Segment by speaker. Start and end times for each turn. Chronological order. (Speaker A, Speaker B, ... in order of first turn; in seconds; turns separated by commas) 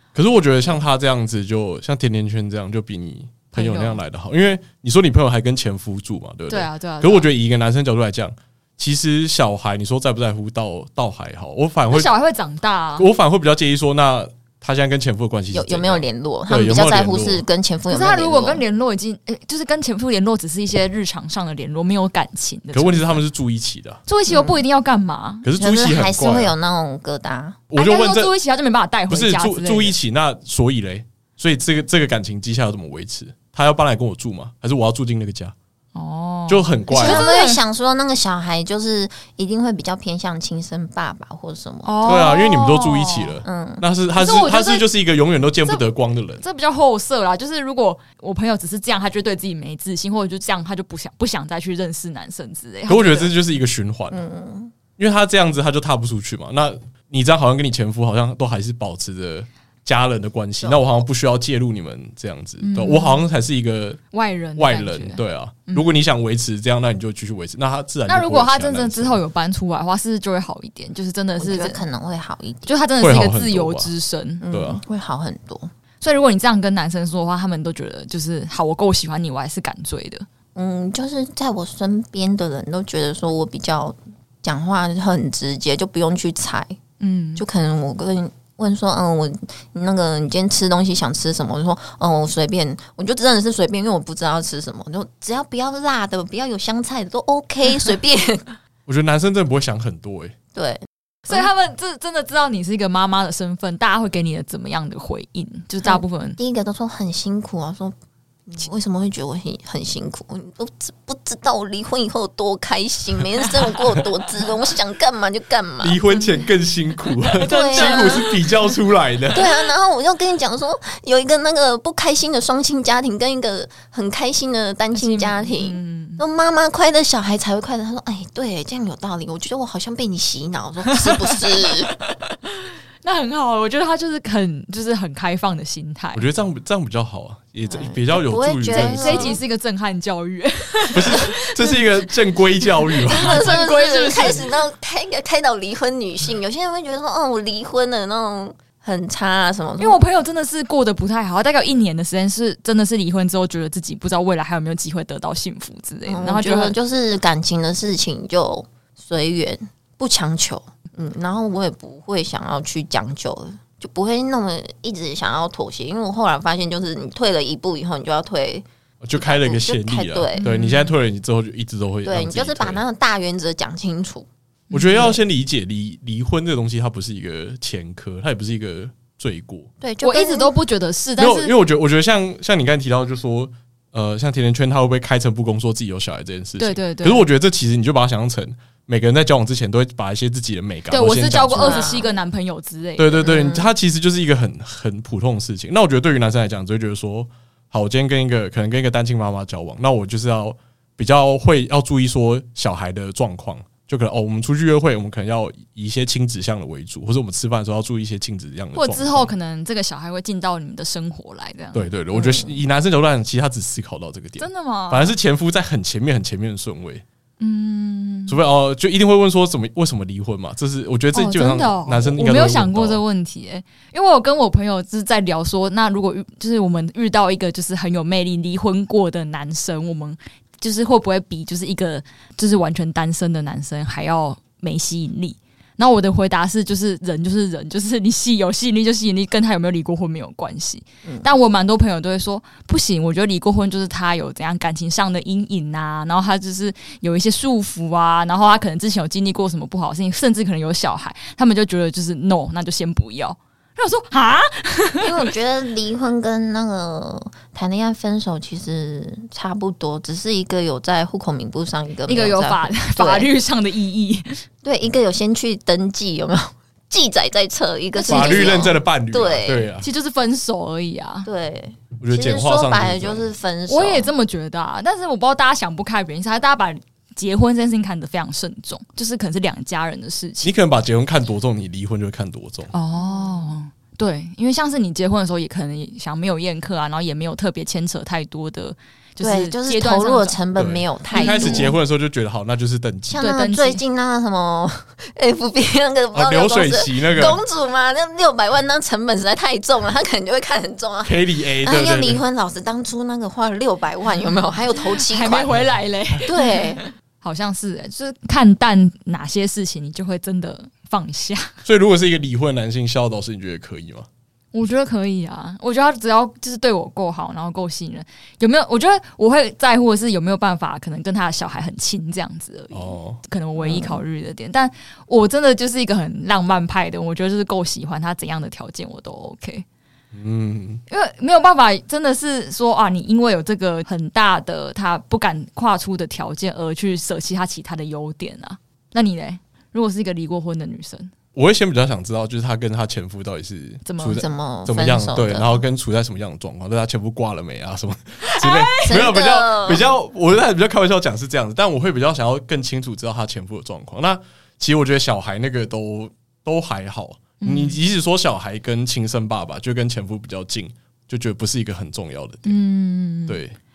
Speaker A: 0.1-12.1, Speaker B: 3.5-4.0, Speaker B: 6.5-7.3, Speaker B: 11.9-13.1, Speaker A: 13.0-17.4, Speaker C: 15.5-18.6, Speaker B: 17.9-23.2, Speaker A: 22.7-24.0, Speaker B: 24.1-25.5, Speaker C: 24.3-24.6, Speaker A: 25.4-26.5, Speaker C: 25.6-27.6, Speaker A: 27.7-28.3, Speaker B: 27.8-29.9, Speaker A: 29.1-35.5, Speaker B: 35.9-37.6, Speaker A: 36.5-37.3, Speaker C: 36.9-42.0, Speaker B: 41.8-43.4, Speaker A: 42.0-46.4, Speaker C: 43.4-43.8, Speaker B: 44.1-44.9, Speaker B: 46.4-53.3, Speaker A: 52.9-54.2, Speaker C: 54.1-54.7, Speaker A: 55.0-64.0, Speaker B: 62.6-63.2, Speaker B: 64.1-66.0, Speaker A: 64.6-69.2, Speaker B: 68.1-71.8, Speaker C: 71.4-72.7, Speaker B: 72.7-74.4, Speaker A: 73.0-73.9, Speaker C: 74.4-75.7, Speaker A: 74.5-74.8, Speaker B: 76.0-80.2, Speaker C: 80.5-86.8, Speaker B: 87.0-87.4, Speaker C: 87.4-98.6, Speaker A: 98.9-100.3, Speaker C: 100.5-101.5, Speaker B: 101.3-106.4, Speaker C: 105.8-107.9, Speaker C: 108.5-116.0, Speaker A: 115.8-119.4, Speaker B: 116.1-116.5, Speaker B: 117.3-118.7, Speaker C: 117.5-118.2, Speaker C: 119.3-131.9, Speaker B: 124.9-126.2, Speaker B: 130.9-131.3, Speaker B: 131.9-136.2, Speaker A: 136.1-139.4, Speaker C: 137.7-139.4, Speaker B: 138.7-141.9, Speaker A: 140.9-143.5, Speaker B: 142.7-144.4, Speaker C: 143.1-150.0, Speaker B: 149.8-156.8, Speaker C: 156.1-170.4, Speaker A: 169.0-172.8, Speaker B: 170.4-171.0, Speaker C: 172.0-174.3, Speaker B: 174.7-175.2, Speaker A: 174.7-179.7, Speaker C: 179.8-180.5, Speaker B: 180.0-181.5, Speaker A: 181.2-192.0, Speaker B: 186.6-187.2, Speaker B: 190.9-193.2, Speaker C: 191.6-192.1, Speaker A: 193.0-209.3, Speaker C: 193.2-193.7, Speaker B: 208.7-211.9, Speaker A: 211.7-217.0, Speaker C: 212.1-212.5, Speaker B: 214.4-215.1, Speaker B: 217.4-218.4, Speaker A: 218.3-223.0, Speaker B: 221.1-255.1, Speaker C: 255.0-263.3, Speaker B: 262.1-264.4, Speaker C: 264.6-269.7, Speaker B: 267.9-268.7, Speaker A: 268.1-269.9, Speaker B: 269.8-271.3, Speaker C: 271.2-274.1, Speaker A: 272.0-273.3, Speaker B: 273.7-280.5, Speaker A: 280.4-282.7, Speaker B: 282.7-290.4, Speaker C: 282.9-283.5, Speaker C: 289.2-291.8, Speaker A: 290.6-293.2, Speaker B: 291.1-291.7, Speaker C: 293.1-305.6, Speaker B: 293.2-293.8, Speaker A: 296.1-297.4, Speaker A: 301.0-302.2, Speaker B: 304.8-311.5, Speaker C: 306.2-306.8, Speaker A: 311.6-314.1, Speaker B: 314.5-329.6, Speaker A: 322.7-323.2, Speaker C: 323.6-324.0, Speaker A: 330.1-330.8, Speaker B: 330.9-341.1, Speaker A: 341.3-362.6, Speaker B: 343.8-344.2, Speaker C: 344.1-345.6, Speaker B: 348.2-349.0, Speaker C: 348.8-349.8, Speaker B: 357.4-357.8, Speaker B: 362.4-363.4, Speaker A: 363.3-363.6